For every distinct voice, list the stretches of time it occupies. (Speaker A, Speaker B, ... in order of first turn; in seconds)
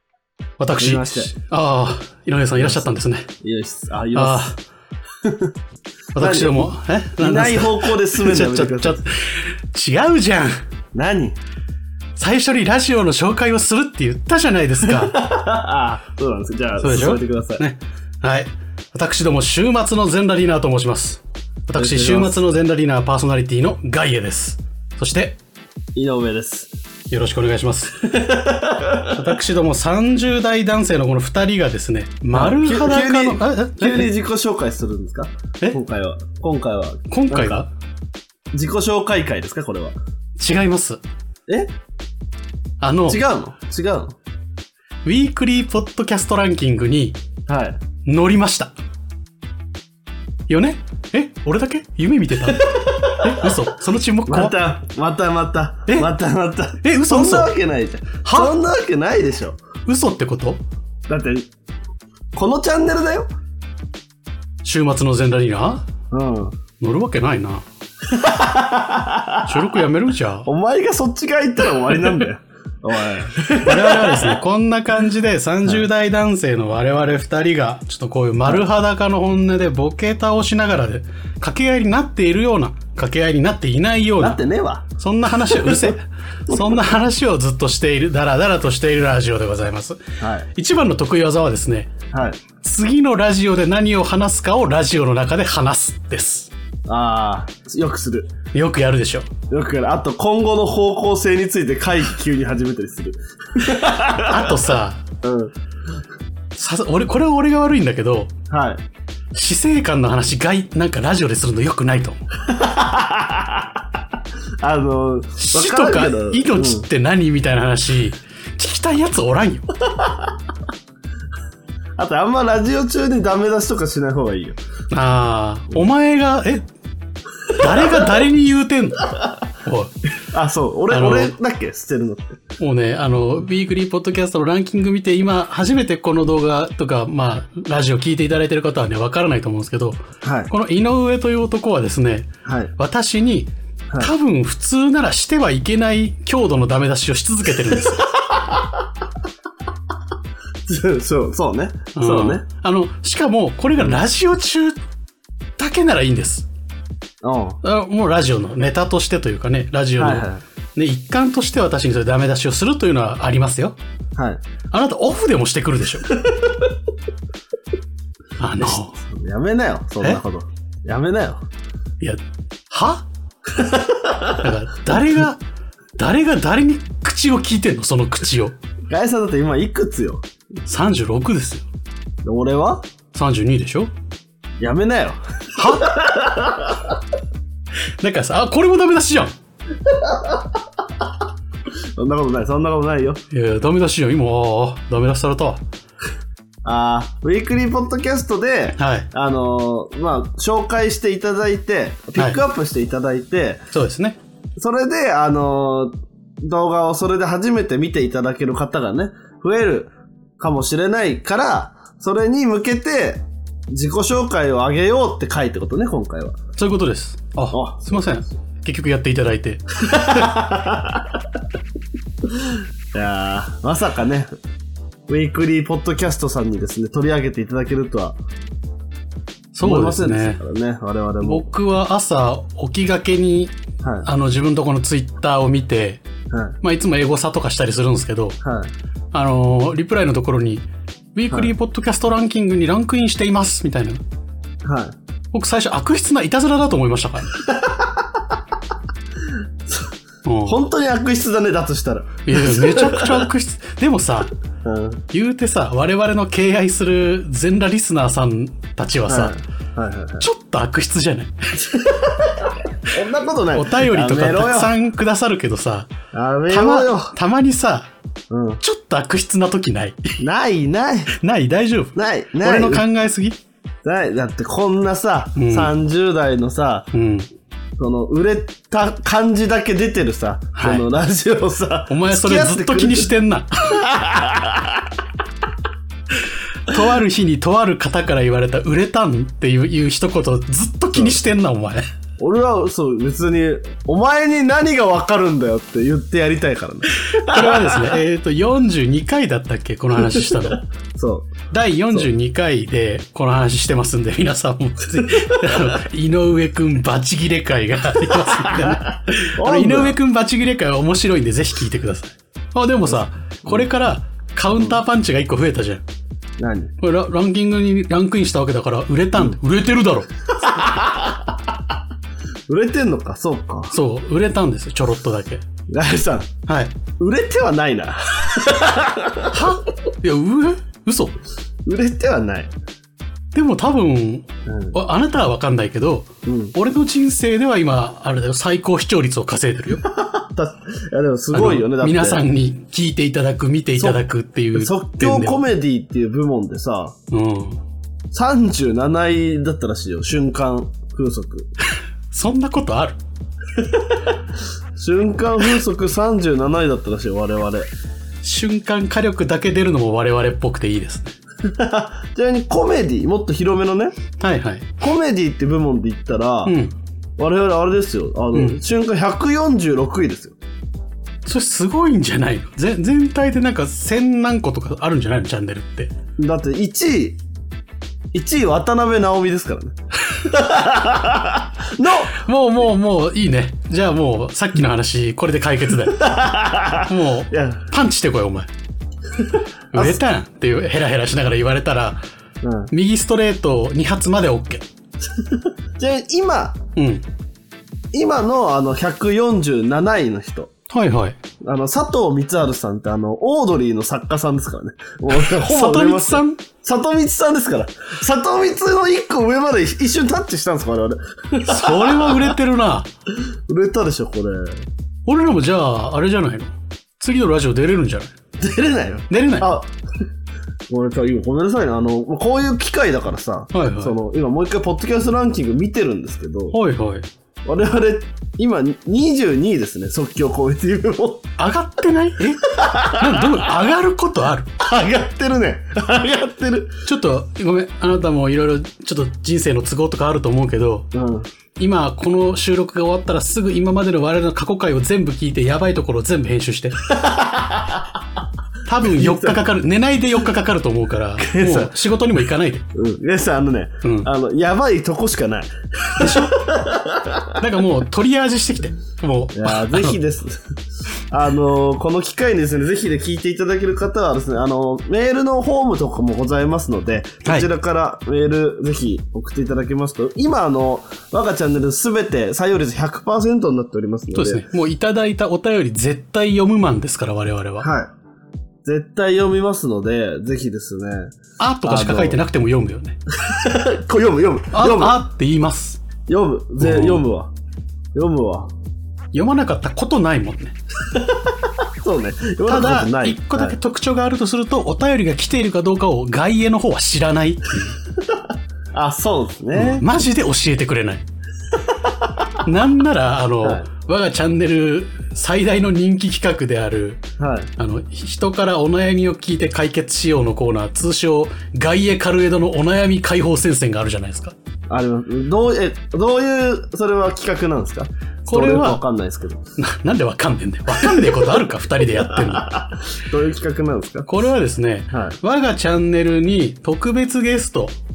Speaker A: 0.6-3.3, 4.2-4.6, 6.2-10.6, 12.2-15.2, 16.8-25.4, 27.1-28.2, 29.0-34.1, 37.1-37.7, 40.4-41.0, 42.8-43.2, 45.0-47.2, 48.0-48.7, 50.5-54.6, 56.8-57.5, 58.2-58.5, 59.9-60.6, 64.6-65.8, 66.8-67.6, 69.4-70.5, 73.5-84.4, 85.0-90.0, 90.5-91.9, 92.6-96.5, 98.5-99.3, 104.2-105.0, 106.5-108.3, 109.3-112.2, 115.4-119.7, 124.9-126.7, 127.5-129.9, 130.9-131.3, 132.6-148.1, 151.9-154.8, 155.6-156.5, 157.6-163.8, 164.7-166.2, 168.4-168.9, 172.0-173.1, 174.3-175.4, 176.0-178.6, 180.7-181.7, 183.1-183.9, 185.6-186.0, 188.0-189.3, 193.3-195.6, 198.8-199.1, 203.7-204.2, 216.6-220.3, 229.5-230.4, 231.2-233.5, 234.0-236.0, 236.6-238.4, 239.1-244.0, 245.3-247.4, 250.2-250.6, 252.3-254.3, 255.1-259.4, 260.2-261.3, 263.5-265.9, 266.5-267.9, 268.6-270.2, 271.1-273.4, 275.4-275.7, 276.9-277.3, 280.6-280.9, 281.9-283.8, 286.7-291.8, 297.0-300.6, 301.5-315.8, 316.8-320.1, 323.7-325.4, 326.5-326.8, 329.3-331.2, 333.4-339.8, 341.3-345.4, 347.1-347.6, 352.1-353.0, 358.2-361.2, 364.2-364.7, 366.4-366.7, 368.3-368.6, 371.3-375.9, 382.1-386.1, 386.8-388.5, 389.7-392.0, 392.7-394.6, 396.8-397.1, 400.7-401.2, 405.1-406.4, 411.4-412.9, 415.1-418.1, 419.1-419.5, 423.5-424.0, 426.5-427.1, 431.4-434.5, 436.9-440.9, 441.6-446.9, 448.6-452.6, 453.8-454.1, 456.0-456.3, 457.4-460.0, 474.1-477.7, 481.4-483.0, 484.5-485.8, 486.6-487.0, 489.1-490.6, 492.5-497.8, 499.6-501.0, 502.4-507.0, 507.6-514.3, 518.3-518.8, 519.6-522.6, 524.1-527.7
Speaker B: 0.8-1.3, 2.6-2.9, 3.4-4.5, 5.2-5.5, 6.2-9.0, 10.9-11.4, 14.8-17.6, 21.8-22.4, 25.9-26.7, 28.0-29.3, 32.3-37.6, 38.5-40.0, 43.1-44.2, 47.5-47.8, 52.4-53.6, 54.3-59.6, 61.1-61.5, 62.4-63.3, 66.1-66.6, 68.1-69.5, 70.5-74.4, 84.2-84.9, 85.5-85.9, 86.5-86.8, 90.2-90.5, 92.1-92.4, 96.9-98.3, 99.5-104.7, 105.2-105.5, 108.5-108.8, 112.5-113.7, 114.6-116.9, 122.0-124.6, 130.3-132.4, 140.2-140.5, 142.4-142.7, 147.8-148.7, 150.7-152.4, 157.2-157.6, 160.0-160.4, 164.2-164.4, 168.6-171.4, 173.6-174.3, 178.9-180.2, 182.2-182.8, 184.6-186.9, 189.9-190.4, 192.0-193.2, 196.6-203.6, 204.6-216.4, 217.5-218.0, 219.8-221.1, 222.9-224.3, 225.1-228.2, 229.6-231.5, 233.8-234.1, 236.3-236.6, 238.4-238.7, 244.6-244.9, 247.4-248.0, 250.4-253.3, 254.6-255.0, 259.1-260.3, 261.6-264.8, 266.1-267.2, 268.3-268.6, 270.2-271.1, 271.9-272.9, 273.8-276.9, 277.8-283.1, 283.7-284.9, 290.9-291.2, 292.2-298.0, 300.0-302.1, 305.0-305.7, 308.5-308.8, 309.4-310.0, 312.9-313.7, 316.4-316.7, 320.4-321.3, 322.5-323.8, 325.7-326.3, 327.0-329.4, 331.7-332.5, 334.5-334.8, 336.3-336.6, 339.8-342.2, 344.5-346.9, 348.1-351.5, 353.6-354.1, 354.8-357.7, 361.4-363.9, 364.8-366.6, 367.2-370.4, 376.2-377.2, 378.1-382.2, 385.9-387.6, 392.4-392.7, 395.8-396.6, 397.9-400.5, 401.4-412.3, 413.5-414.6, 418.4-419.7, 420.7-426.6, 427.5-431.3, 432.5-433.5, 434.6-436.7, 440.9-441.3, 446.9-447.8, 448.9-449.4, 451.2-451.8, 452.8-457.4, 459.3-460.4, 461.1-474.4, 477.6-477.9, 478.6-481.1, 481.6-482.2, 483.2-485.0, 486.1-487.3, 487.9-488.5, 490.9-491.3, 491.8-493.6, 498.7-499.9, 501.7-502.1, 503.4-503.7, 507.2-507.5, 514.7-519.4, 520.7-524.1, 524.9-525.2